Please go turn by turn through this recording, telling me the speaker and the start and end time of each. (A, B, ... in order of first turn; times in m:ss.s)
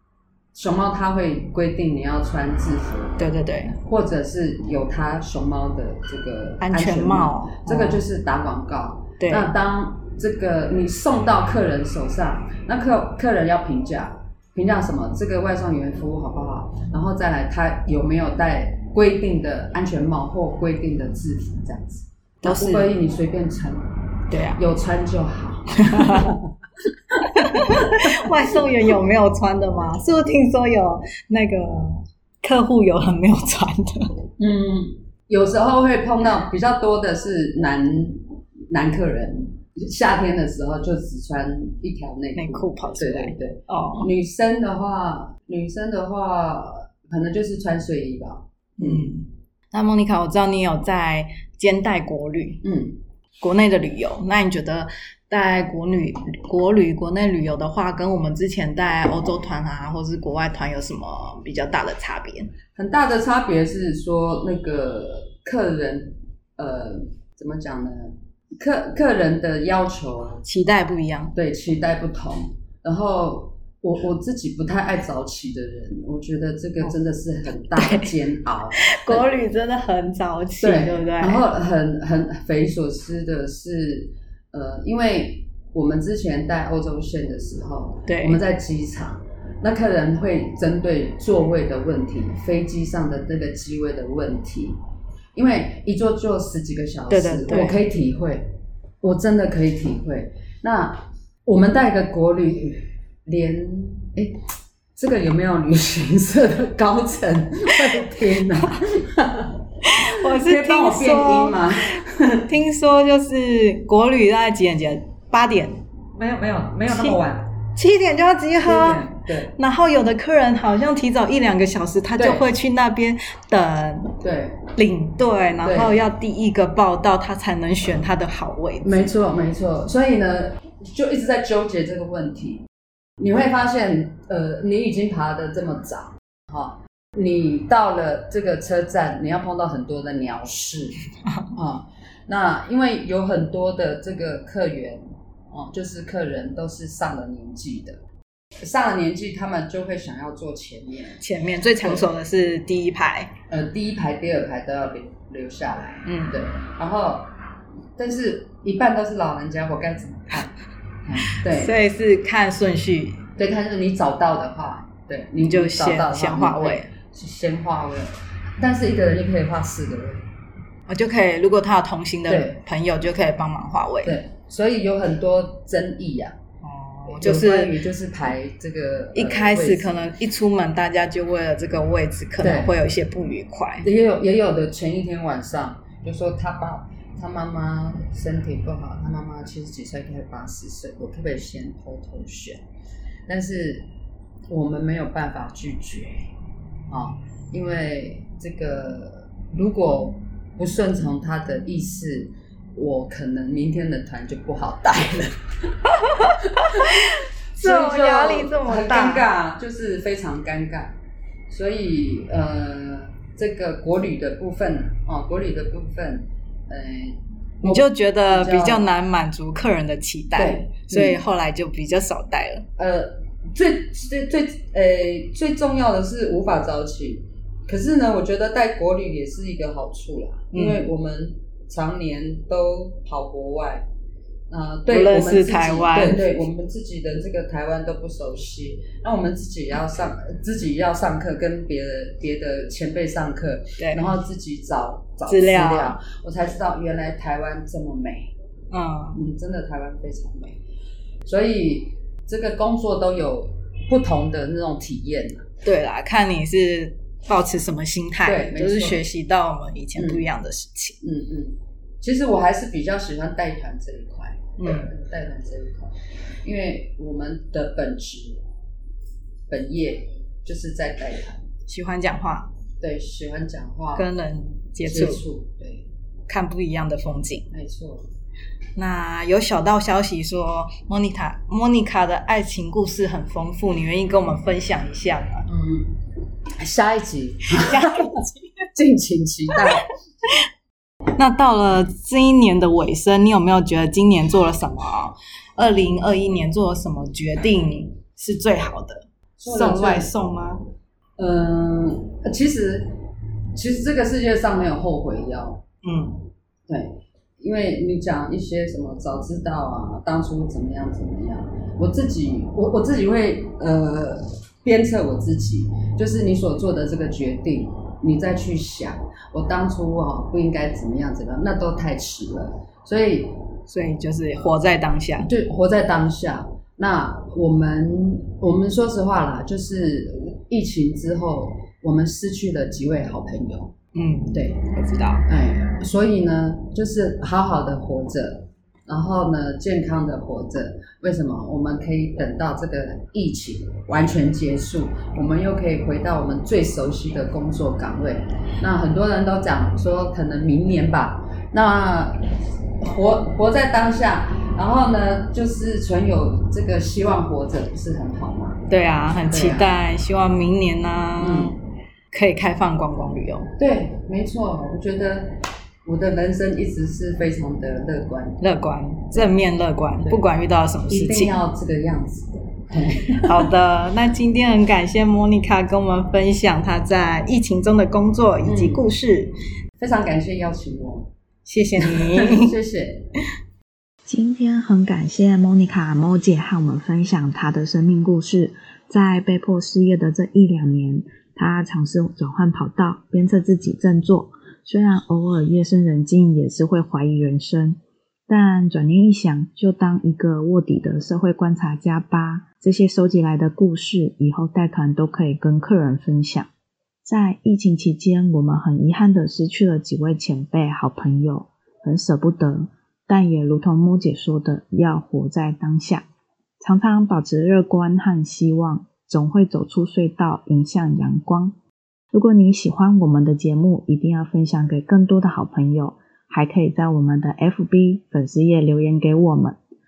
0:00.5-0:03.2 A
0:03.2-0:03.8 B
0:03.8-0:23.9 A
0:06.6-0:08.0 B
0:09.2-0:09.5 B
0:22.4-0:22.9 B
0:24.3-0:24.6 B
0:24.5-0:26.5 A
0:25.8-0:26.4 B
0:27.1-0:28.7 A
0:27.3-0:34.2 B
0:34.4-0:49.1 A
0:42.4-0:44.1 B
0:48.8-0:52.6 B
0:52.6-0:53.0 A
0:53.4-1:02.5 B
1:02.7-1:10.4 A
1:10.4-1:11.3 B
1:11.3-1:19.3 A
1:17.7-1:18.1 B
1:18.8-1:21.4 B
1:20.6-1:34.8 A
1:28.1-1:28.4 B
1:35.3-1:44.4 A
1:37.1-1:37.8 B
1:45.0-1:52.5 A
1:49.8-1:51.7 B
1:52.4-1:55.8 B
1:56.2-1:57.5 A
1:56.9-1:57.2 B
1:57.7-2:04.2 B
1:58.6-1:59.5 A
2:02.2-2:02.5 A
2:04.2-2:04.7 A
2:04.7-2:09.1 B
2:05.6-2:06.0 A
2:08.8-2:12.6 A
2:13.2-2:21.0 A
2:21.5-2:28.0 A
2:28.6-2:31.2 A
2:31.2-2:33.3 B
2:31.8-2:32.1 A
2:33.5-2:37.3 A
2:36.0-2:36.4 B
2:38.0-2:41.8 A
2:41.3-2:43.2 B
2:43.4-2:50.2 A
2:45.4-2:46.9 B
2:50.9-2:54.2 B
2:52.3-2:52.6 A
2:54.0-2:56.4 A
2:56.6-2:57.7 B
2:57.1-3:00.0 A
2:59.1-3:03.9 B
3:02.4-3:02.7 A
3:03.8-3:12.6 A
3:13.3-3:13.9 A
3:14.5-3:16.3 A
3:16.9-3:27.0 A
3:26.0-3:29.3 B
3:27.6-3:31.0 A
3:31.5-3:38.9 A
3:37.6-3:42.7 B
3:40.4-3:41.2 A
3:42.8-3:53.8 A
3:50.5-3:50.8 B
3:54.5-4:08.3 A
3:54.9-3:56.3 B
4:03.8-4:04.1 B
4:05.3-4:06.0 B
4:08.7-4:09.2 B
4:09.1-4:10.6 A
4:11.2-4:15.5 A
4:15.6-4:21.0 B
4:18.2-4:19.0 A
4:19.9-4:20.3 A
4:21.0-4:28.4 A
4:24.6-4:24.9 B
4:29.5-4:31.4 A
4:31.7-4:32.5 B
4:32.8-4:34.1 A
4:34.0-4:35.2 B
4:34.8-4:35.8 A
4:36.3-4:37.5 B
4:37.5-4:38.1 A
4:38.8-4:45.5 B
4:45.5-4:46.0 A
4:46.6-4:48.2 A
4:47.5-4:48.5 B
4:48.7-4:49.9 A
4:49.5-4:49.8 B
4:51.2-5:00.6 B
4:59.4-5:00.1 A
5:01.2-5:03.0 A
5:03.6-5:05.6 A
5:05.8-5:06.2 B
5:06.7-5:23.4 A
5:23.7-5:25.3 B
5:25.2-5:33.7 A
5:33.9-5:35.2 B
5:34.3-5:34.6 A
5:35.3-5:52.3 A
5:52.8-5:58.6 A
5:58.7-6:01.6 B
5:59.3-5:59.7 A
6:01.2-6:01.6 A
6:02.1-6:03.5 B
6:03.6-6:08.4 A
6:08.4-6:11.4 B
6:10.9-6:13.5 A
6:13.1-6:19.3 B
6:18.4-6:18.8 A
6:19.8-6:21.1 A
6:21.4-6:22.6 B
6:21.8-6:23.1 A
6:24.0-6:46.5 C
6:47.0-6:56.0 C
6:56.6-7:01.6 C
7:02.1-7:09.6 C